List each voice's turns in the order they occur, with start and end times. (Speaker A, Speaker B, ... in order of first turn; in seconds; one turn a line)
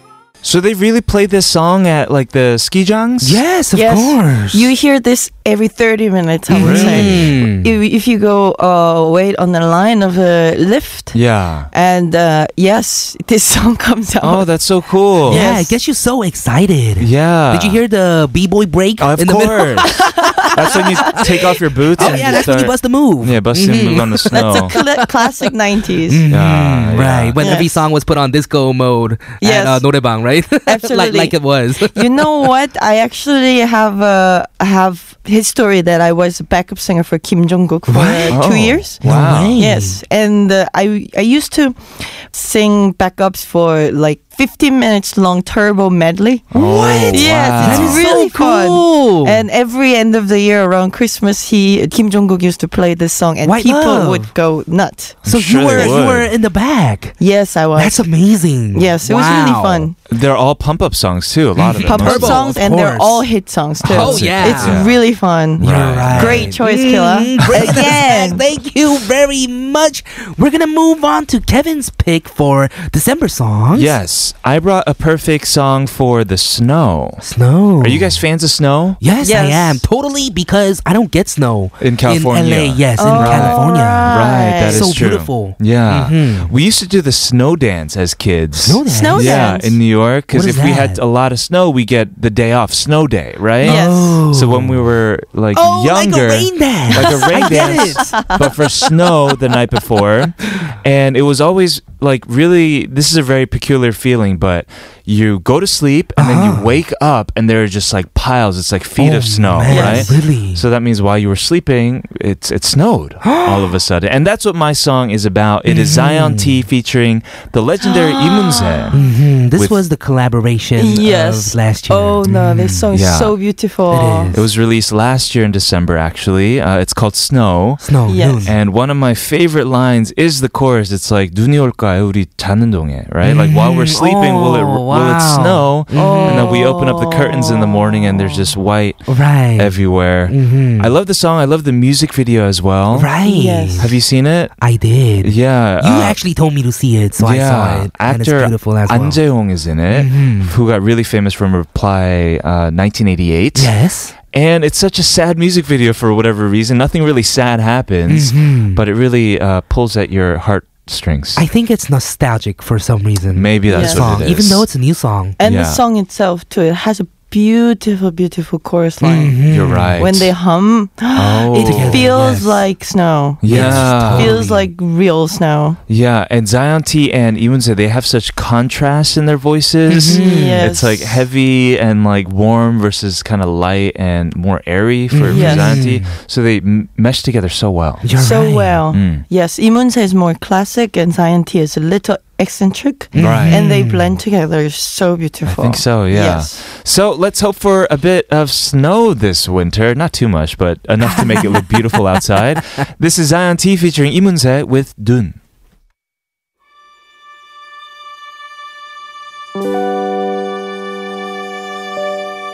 Speaker A: 0.4-3.4
Speaker B: 3.2-4.7
Speaker C: 3.7-11.2
Speaker B: 6.5-7.7
Speaker A: 6.6-7.3
Speaker A: 11.1-11.7
Speaker C: 11.7-14.5
Speaker A: 14.2-15.5
Speaker B: 15.3-25.4
Speaker C: 15.3-15.7
Speaker A: 17.0-17.8
Speaker A: 19.0-24.8
Speaker C: 19.8-21.2
Speaker C: 22.0-22.4
Speaker C: 24.3-26.2
Speaker B: 26.1-32.5
Speaker A: 26.3-27.4
Speaker C: 27.4-27.8
Speaker C: 29.4-29.9
Speaker C: 30.6-39.0
Speaker B: 37.9-38.4
Speaker A: 38.3-39.6
Speaker B: 39.0-40.0
Speaker C: 39.6-55.2
Speaker A: 46.5-48.0
Speaker B: 46.8-49.5
Speaker B: 53.4-54.3
Speaker A: 55.2-56.3
Speaker B: 55.3-57.2
Speaker C: 57.2-58.1
Speaker B: 57.8-59.9
Speaker C: 58.7-60.0
Speaker A: 60.1-62.4
Speaker B: 61.6-63.3
Speaker C: 61.9-68.4
Speaker B: 63.8-64.8
Speaker A: 63.8-65.0
Speaker A: 65.6-66.5
Speaker B: 65.6-74.0
Speaker A: 73.7-77.3
Speaker B: 77.2-78.2
Speaker A: 77.8-79.0
Speaker B: 79.0-86.5
Speaker C: 79.2-79.8
Speaker A: 81.8-119.0
Speaker C: 83.0-84.9
Speaker B: 88.6-89.4
Speaker C: 88.9-89.8
Speaker B: 90.3-91.0
Speaker B: 93.6-94.9
Speaker C: 93.7-94.2
Speaker B: 95.5-98.2
Speaker C: 97.0-98.5
Speaker B: 106.2-106.7
Speaker B: 109.0-110.6
Speaker C: 109.7-110.1
Speaker B: 113.2-113.8
Speaker B: 115.7-116.7
Speaker C: 117.8-119.0
Speaker B: 118.9-122.9
Speaker C: 120.8-124.3
Speaker A: 122.9-123.3
Speaker B: 123.9-124.5
Speaker A: 124.3-127.9
Speaker B: 127.8-128.6
Speaker C: 128.1-128.5
Speaker A: 128.4-139.1
Speaker B: 133.2-136.6
Speaker C: 135.9-138.4
Speaker B: 139.1-139.7
Speaker A: 139.6-143.1
Speaker B: 140.3-140.9
Speaker B: 142.9-144.0
Speaker C: 143.2-143.9
Speaker A: 143.8-144.5
Speaker B: 144.6-149.2
Speaker A: 145.2-146.2
Speaker A: 147.2-153.7
Speaker B: 149.9-150.6
Speaker B: 153.6-154.1
Speaker A: 154.3-161.4
Speaker B: 158.1-158.8
Speaker B: 161.4-165.4
Speaker A: 163.3-164.7
Speaker C: 163.7-164.1
Speaker C: 165.4-169.4
Speaker A: 165.4-165.8
Speaker B: 169.0-170.0
Speaker A: 169.5-170.3
Speaker C: 170.0-175.8
Speaker A: 171.1-172.0
Speaker B: 171.6-172.6
Speaker A: 173.4-174.3
Speaker B: 173.5-174.7
Speaker A: 175.9-188.1
Speaker B: 179.9-180.7
Speaker C: 180.1-181.2
Speaker B: 185.1-186.1
Speaker C: 185.3-185.8
Speaker B: 188.0-188.8
Speaker C: 188.2-196.6
Speaker A: 188.9-189.2
Speaker B: 193.1-194.2
Speaker A: 193.2-193.6
Speaker A: 195.5-205.4
Speaker B: 201.0-202.6